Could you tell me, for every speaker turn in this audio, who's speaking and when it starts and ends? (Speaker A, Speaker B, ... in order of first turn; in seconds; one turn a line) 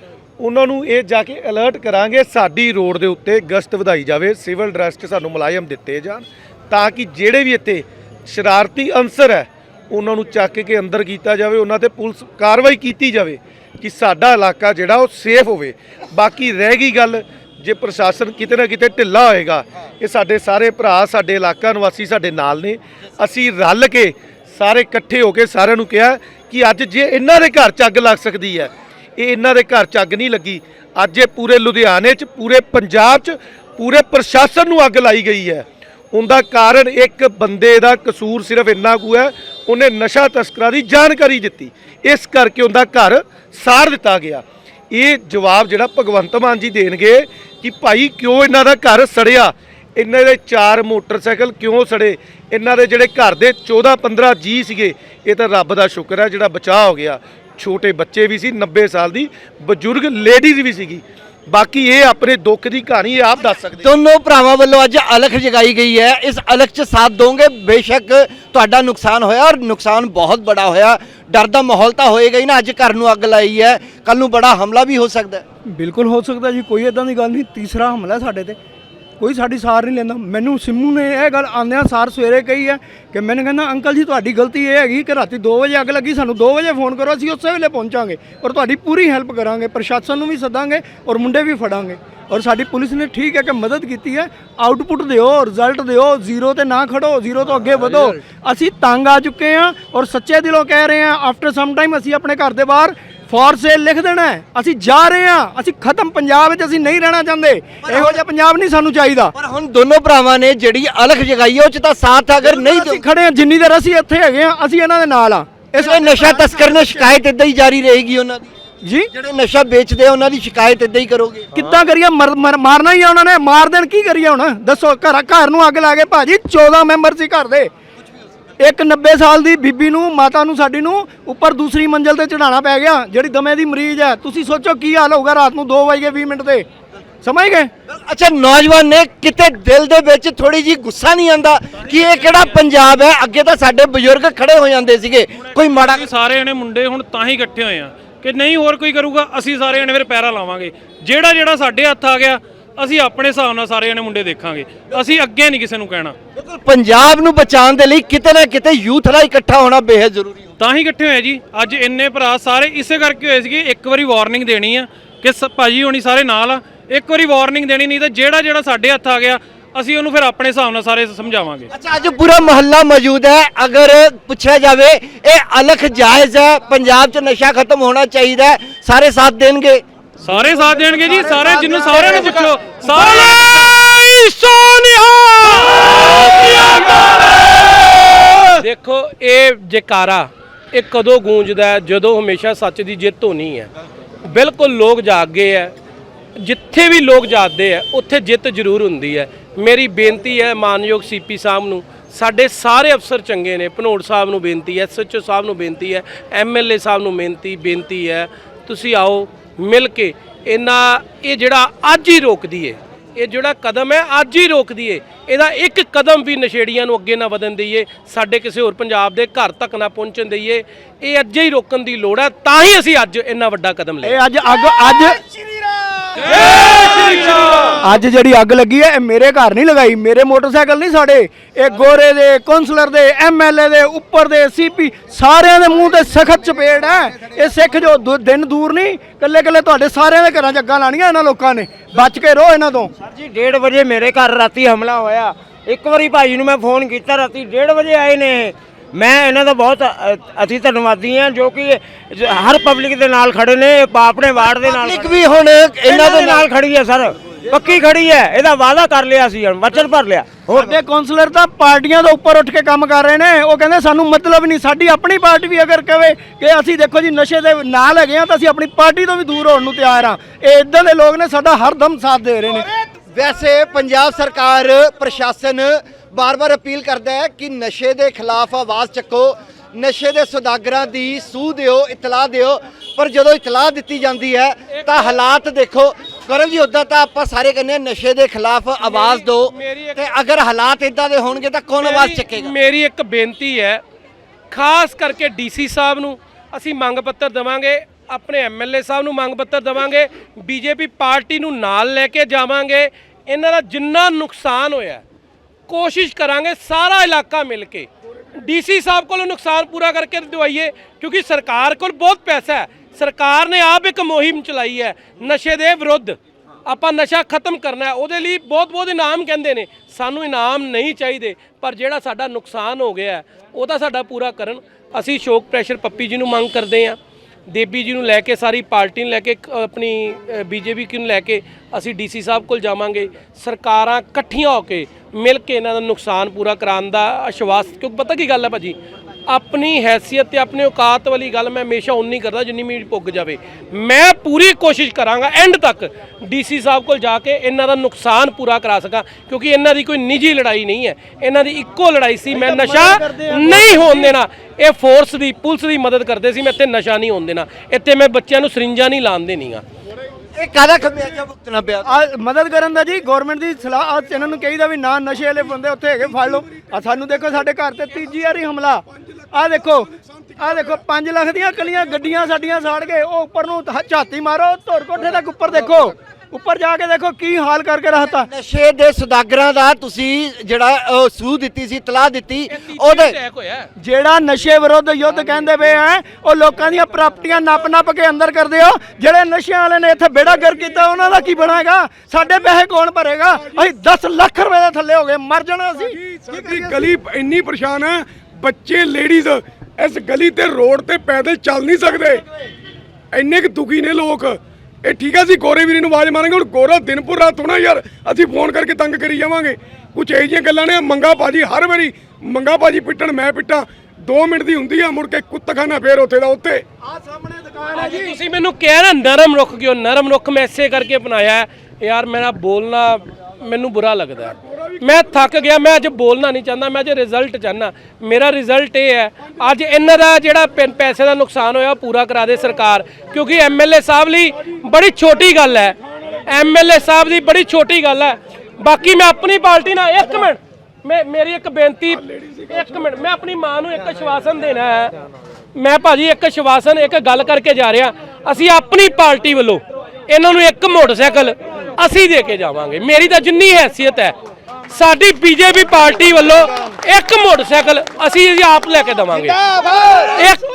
Speaker A: 0.4-63.9
Speaker B: 63.8-75.5
Speaker C: 75.7-78.6
Speaker C: 79.2-109.3
Speaker B: 107.9-108.2
Speaker B: 109.3-113.0
Speaker C: 112.4-117.2
Speaker B: 115.8-118.5
Speaker C: 118.8-119.1
Speaker B: 119.1-121.5
Speaker C: 121.5-127.7
Speaker C: 128.6-136.7
Speaker C: 137.2-137.7
Speaker B: 137.9-146.1
Speaker D: 145.7-156.2
Speaker B: 156.4-160.5
Speaker D: 160.6-171.7
Speaker B: 171.7-179.8
Speaker D: 180.2-183.9
Speaker B: 181.1-182.5
Speaker E: 182.8-186.3
Speaker D: 185.7-187.8
Speaker E: 188.6-193.7
Speaker E: 194.2-195.7
Speaker E: 196.4-224.2
Speaker C: 224.0-225.2
Speaker D: 226.2-227.8
Speaker C: 227.8-242.9
Speaker F: 243.0-255.2
Speaker B: 254.6-256.5
Speaker F: 255.8-260.8
Speaker C: 260.5-272.7
Speaker B: 273.1-292.6
Speaker E: 284.7-285.1
Speaker E: 288.8-290.0
Speaker E: 291.8-293.8
Speaker E: 294.5-305.0
Speaker E: 305.7-327.0
Speaker E: 327.5-338.8
Speaker E: 339.3-359.6
Speaker C: 352.3-354.1
Speaker B: 360.3-361.9
Speaker C: 361.9-378.3
Speaker G: 370.0-370.4
Speaker B: 378.1-383.2
Speaker E: 382.5-383.7
Speaker C: 383.8-396.9
Speaker G: 396.0-402.2
Speaker G: 403.1-416.6
Speaker C: 417.1-418.1
Speaker E: 417.8-444.9
Speaker G: 442.0-442.6
Speaker E: 445.6-454.2
Speaker E: 454.7-459.4
Speaker C: 459.5-460.2
Speaker G: 459.5-459.8
Speaker E: 460.1-460.4